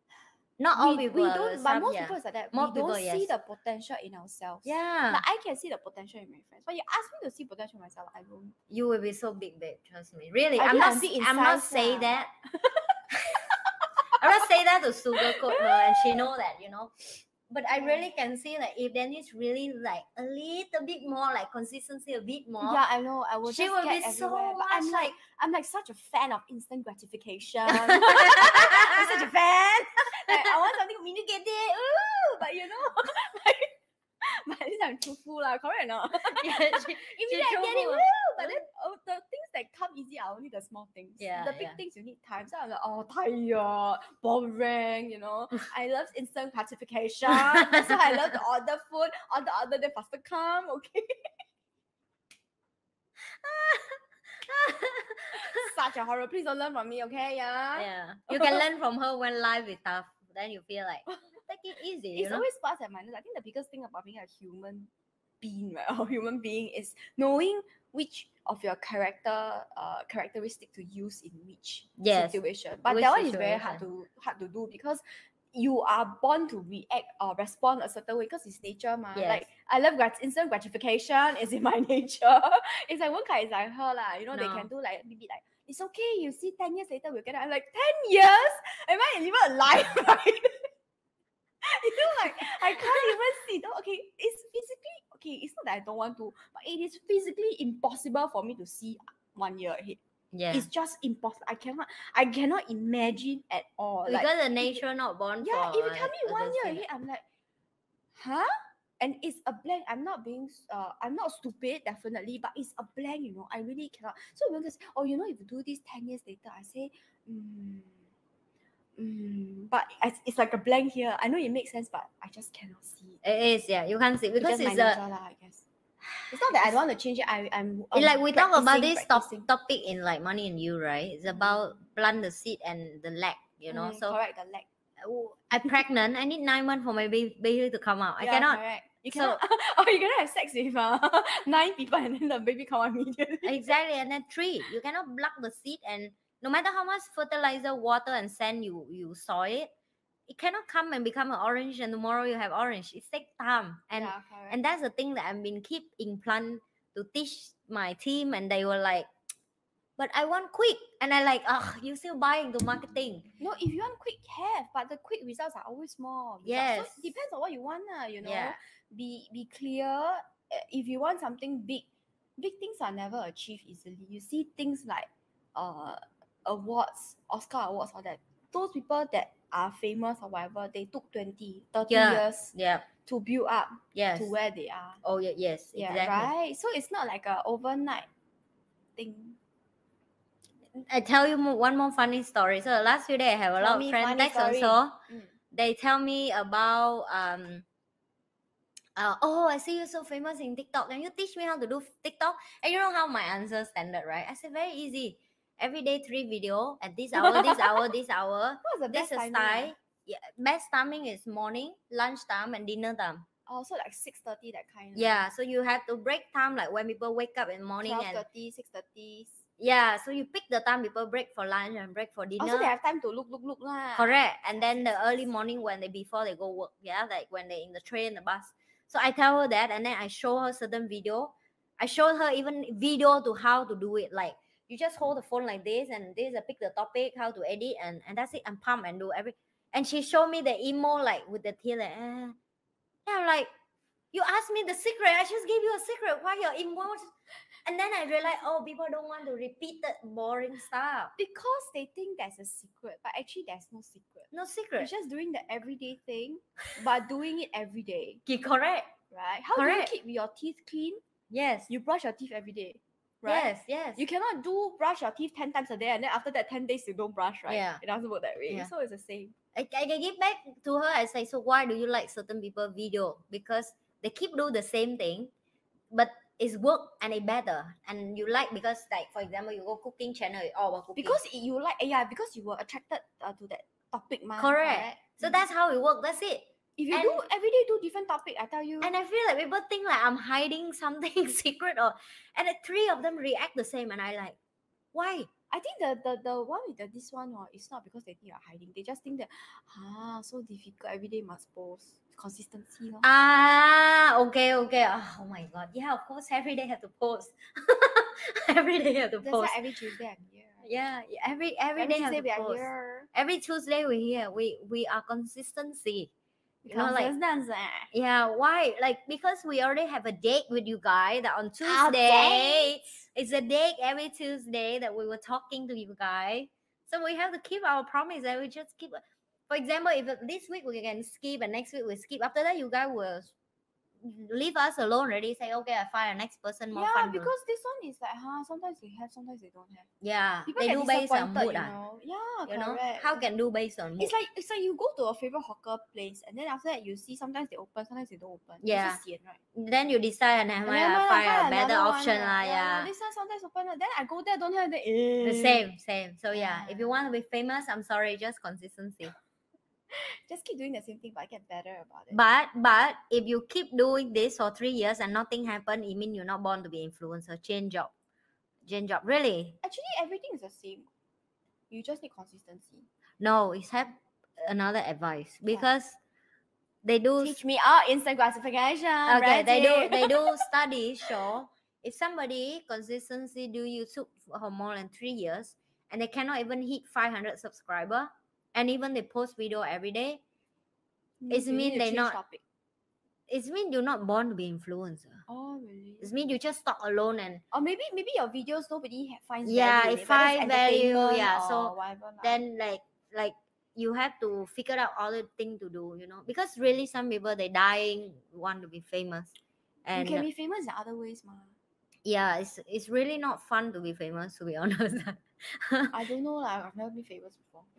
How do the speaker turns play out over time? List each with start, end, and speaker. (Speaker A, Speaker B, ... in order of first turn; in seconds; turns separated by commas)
Speaker A: 0.6-3.3, Speaker B: 0.7-8.5, Speaker A: 4.6-5.2, Speaker A: 8.7-12.3, Speaker B: 10.6-13.4, Speaker A: 14.2-22.8, Speaker B: 15.2-16.2, Speaker B: 17.8-18.1, Speaker B: 22.6-33.7, Speaker A: 23.4-25.1, Speaker A: 27.8-29.0, Speaker B: 34.2-51.2, Speaker A: 36.4-38.6, Speaker A: 41.2-41.8, Speaker A: 47.3-48.1, Speaker A: 53.4-55.5, Speaker B: 55.3-58.7, Speaker A: 57.7-62.4, Speaker B: 61.1-61.4, Speaker B: 62.1-90.7, Speaker A: 72.0-73.8, Speaker A: 79.1-79.5, Speaker A: 84.3-84.7, Speaker B: 91.6-100.0, Speaker A: 100.3-100.7, Speaker B: 100.5-104.8, Speaker A: 104.0-106.8, Speaker B: 105.4-107.2, Speaker B: 108.1-118.0, Speaker B: 119.0-123.2, Speaker A: 123.2-125.0, Speaker B: 124.4-125.6, Speaker A: 126.1-126.8, Speaker B: 126.3-129.4, Speaker A: 127.9-134.2, Speaker B: 133.7-134.7, Speaker A: 135.0-139.4, Speaker B: 138.2-143.7, Speaker A: 143.4-149.7, Speaker A: 150.3-159.1, Speaker B: 153.9-154.6, Speaker A: 160.0-163.3, Speaker B: 163.4-171.8, Speaker A: 166.4-167.1, Speaker A: 168.2-168.6, Speaker B: 172.4-185.0, Speaker A: 181.9-182.9, Speaker A: 183.9-184.3, Speaker A: 185.0-186.3, Speaker B: 185.7-188.1, Speaker B: 189.0-189.4, Speaker A: 190.8-194.9, Speaker B: 193.6-195.3, Speaker A: 195.5-197.6, Speaker A: 198.9-213.2, Speaker B: 207.2-207.8, Speaker B: 208.6-209.7, Speaker B: 213.5-215.2, Speaker A: 214.9-218.2, Speaker B: 217.8-219.4, Speaker A: 219.6-222.7, Speaker B: 222.4-225.3, Speaker A: 223.9-242.3, Speaker A: 243.1-243.5, Speaker A: 244.1-247.1, Speaker A: 247.6-251.1, Speaker B: 251.2-258.2, Speaker A: 254.3-254.9, Speaker A: 258.2-258.9, Speaker B: 259.1-261.0, Speaker A: 259.5-259.9, Speaker A: 261.3-261.7, Speaker B: 261.7-269.3, Speaker A: 263.2-264.0, Speaker A: 267.5-267.8, Speaker A: 269.5-275.3, Speaker A: 275.9-281.2, Speaker B: 280.9-285.4, Speaker A: 284.4-287.2, Speaker B: 286.8-288.9, Speaker A: 288.8-294.4, Speaker A: 294.9-295.3, Speaker B: 295.5-303.1, Speaker A: 303.0-309.7, Speaker B: 309.2-310.8, Speaker A: 310.6-316.1, Speaker B: 311.8-313.1, Speaker B: 316.6-317.9, Speaker A: 316.7-317.1, Speaker A: 317.9-333.3, Speaker B: 321.6-322.9, Speaker A: 334.0-337.3, Speaker B: 336.7-339.9, Speaker A: 340.0-341.7, Speaker B: 340.5-343.3, Speaker A: 342.5-344.1, Speaker B: 344.0-349.4, Speaker A: 348.6-349.0, Speaker A: 349.5-352.9, Speaker B: 350.6-355.6, Speaker A: 355.2-359.1, Speaker B: 356.3-357.0, Speaker B: 360.3-362.2, Speaker A: 362.1-367.9, Speaker A: 368.6-369.6, Speaker B: 369.6-370.9, Speaker B: 371.7-372.9, Speaker A: 373.2-376.0, Speaker A: 376.8-377.4, Speaker B: 377.2-380.4, Speaker A: 379.1-390.2, Speaker B: 391.2-392.4, Speaker A: 391.3-392.2, Speaker A: 393.3-395.2, Speaker B: 395.3-396.1, Speaker A: 396.0-397.4, Speaker B: 397.5-402.4, Speaker A: 399.4-410.2, Speaker B: 409.9-411.5, Speaker A: 412.0-415.9, Speaker B: 415.9-417.7